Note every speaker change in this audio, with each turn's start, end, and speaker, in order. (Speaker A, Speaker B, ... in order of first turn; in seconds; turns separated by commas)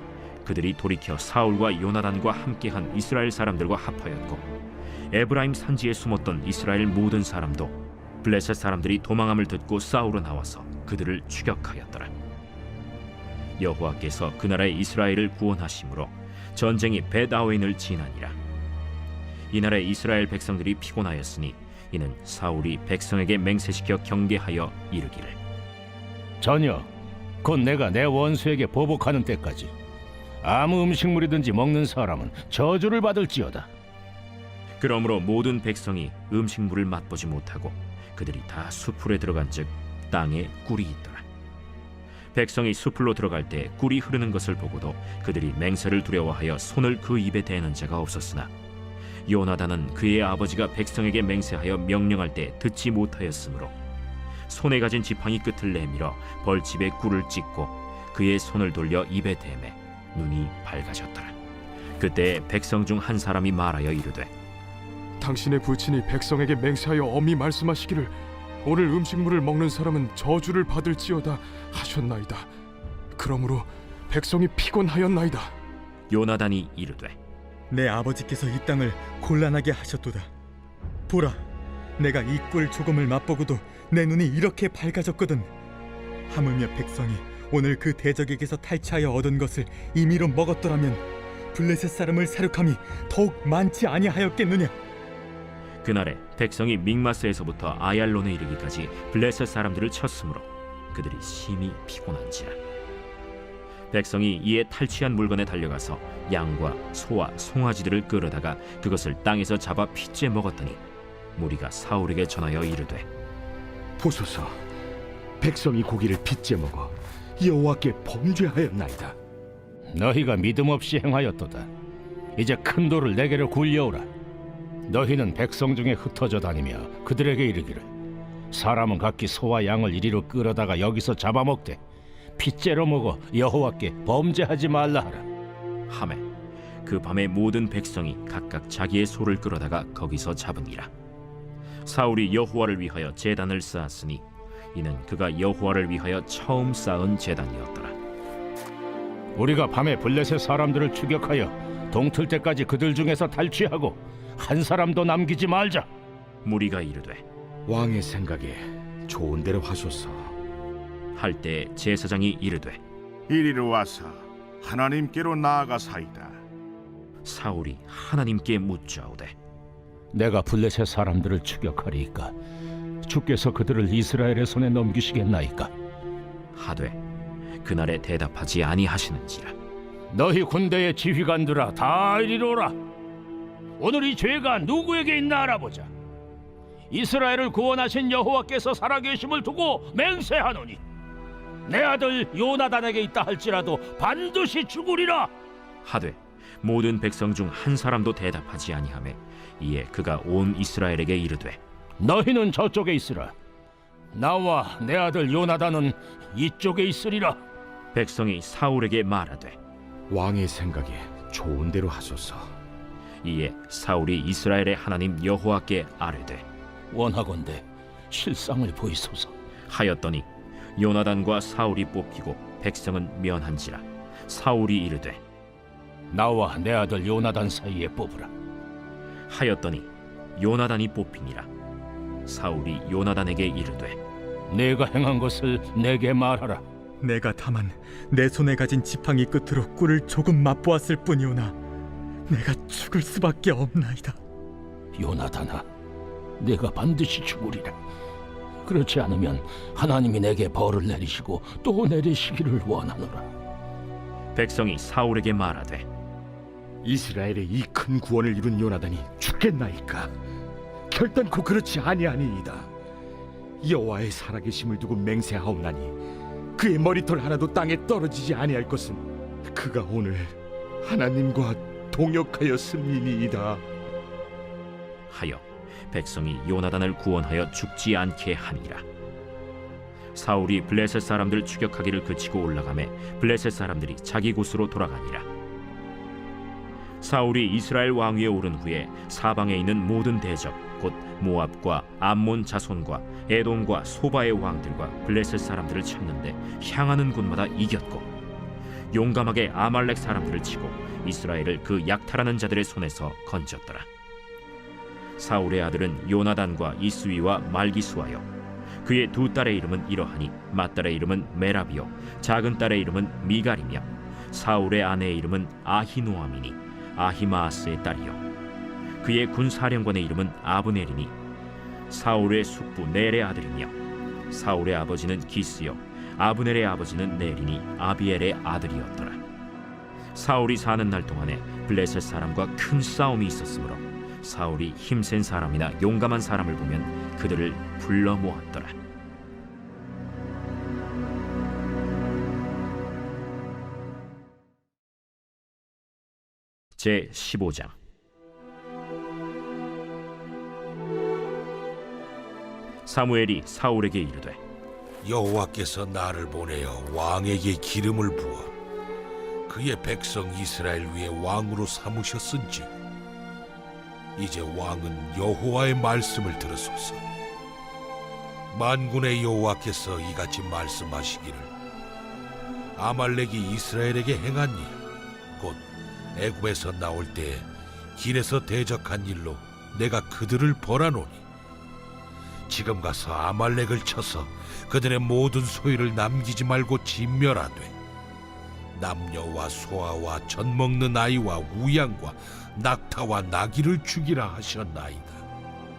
Speaker A: 0.4-4.4, Speaker A: 5.1-12.1, Speaker A: 13.6-18.4, Speaker A: 19.5-25.4, Speaker B: 26.4-26.9, Speaker B: 27.4-29.7, Speaker B: 30.4-33.7, Speaker A: 34.8-41.2, Speaker A: 42.3-48.5, Speaker A: 49.3-53.7, Speaker A: 54.5-61.4, Speaker A: 62.0-64.3, Speaker C: 65.2-72.5, Speaker C: 73.1-75.5, Speaker A: 76.1-77.2, Speaker D: 77.7-80.3, Speaker D: 81.1-81.4, Speaker D: 82.0-85.5, Speaker D: 86.3-94.7, Speaker A: 95.8-102.6, Speaker A: 103.9-110.8, Speaker A: 111.3-113.1, Speaker E: 114.0-114.6, Speaker E: 115.4-119.2, Speaker B: 119.9-121.7, Speaker B: 122.4-124.1, Speaker B: 124.9-127.9, Speaker B: 128.5-131.8, Speaker B: 132.4-135.2, Speaker A: 135.9-136.2, Speaker A: 136.8-140.9, Speaker A: 141.8-147.9, Speaker B: 149.3-155.9, Speaker A: 156.4-157.2, Speaker E: 157.7-160.3, Speaker A: 161.1-162.8, Speaker F: 163.3-166.4, Speaker A: 167.2-169.3, Speaker B: 170.1-172.3, Speaker B: 173.0-175.7, Speaker A: 176.5-177.0, Speaker A: 177.6-179.5, Speaker B: 180.1-182.8, Speaker B: 183.8-185.9, Speaker B: 186.9-190.8, Speaker B: 191.7-195.3, Speaker A: 195.8-201.6, Speaker B: 202.0-203.3, Speaker B: 204.1-207.4, Speaker A: 207.9-209.6, Speaker E: 210.1-212.6, Speaker A: 213.2-216.4, Speaker B: 216.9-219.3, Speaker A: 219.7-225.2, Speaker B: 226.1-228.3, Speaker A: 229.3-231.5, Speaker A: 232.2-234.0, Speaker B: 234.5-236.6, Speaker D: 237.0-241.6, Speaker D: 242.3-244.2, Speaker B: 244.9-245.7, Speaker B: 246.4-247.7, Speaker B: 248.6-253.3, Speaker A: 254.3-255.9, Speaker E: 256.8-260.1, Speaker E: 260.9-262.7, Speaker E: 263.6-266.0, Speaker E: 266.6-273.6, Speaker A: 275.1-278.8, Speaker A: 280.1-285.3, Speaker A: 287.0-298.1, Speaker A: 298.9-303.9, Speaker A: 305.2-308.3, Speaker A: 308.8-318.2, Speaker A: 319.0-321.1, Speaker A: 321.9-323.7, Speaker A: 324.3-329.2, Speaker A: 330.1-338.8, Speaker A: 346.8-347.7, Speaker A: 352.9-354.4, Speaker G: 355.0-358.5, Speaker G: 359.5-362.7, Speaker G: 364.1-367.0, Speaker G: 368.5-371.5, Speaker G: 372.8-374.8, Speaker G: 375.4-375.6, Speaker G: 376.1-381.2, Speaker G: 382.5-387.7, Speaker G: 388.7-395.2